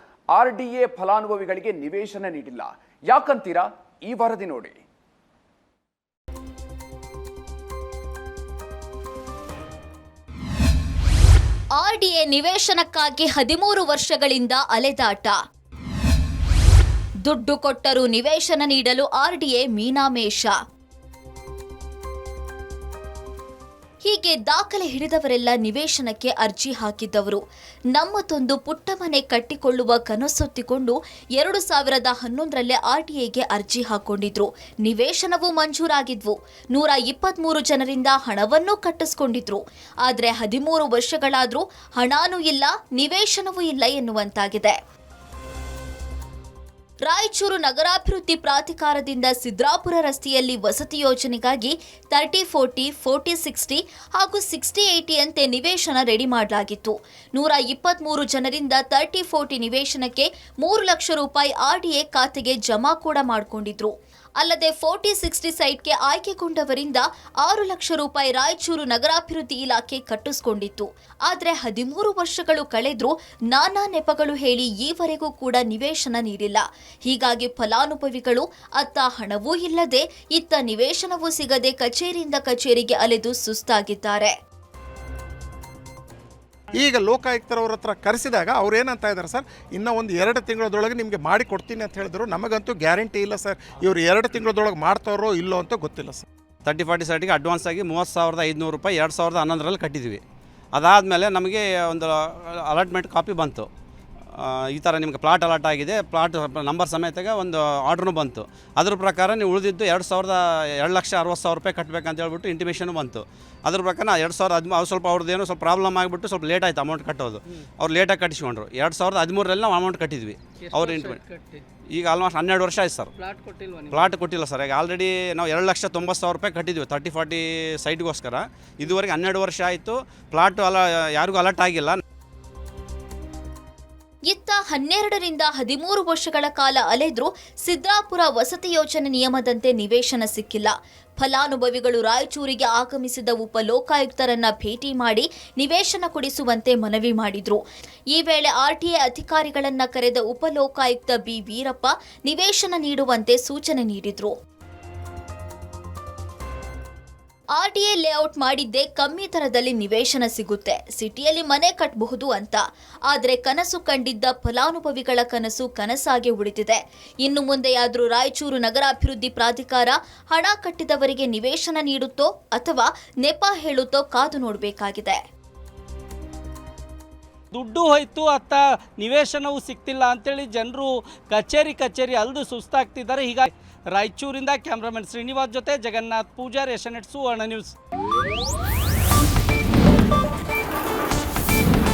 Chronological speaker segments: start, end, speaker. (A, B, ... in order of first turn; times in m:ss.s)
0:00.3-0:04.8 A
0:11.8-0:15.4 B
0:17.2-0:20.6 B
0:24.0-0:27.4 B
0:27.9-0:44.8 B
0:47.0-1:24.3 B
1:26.7-1:36.2 C
1:36.6-1:40.2 D
1:40.8-1:43.7 D
1:44.4-2:01.2 D
2:00.6-2:01.6 E
2:01.9-2:03.1 D
2:03.2-2:04.1 E
2:03.9-2:12.0 D
2:14.3-2:27.6 B
2:28.1-2:34.3 B
2:37.6-2:55.2 B
2:57.5-3:07.7 E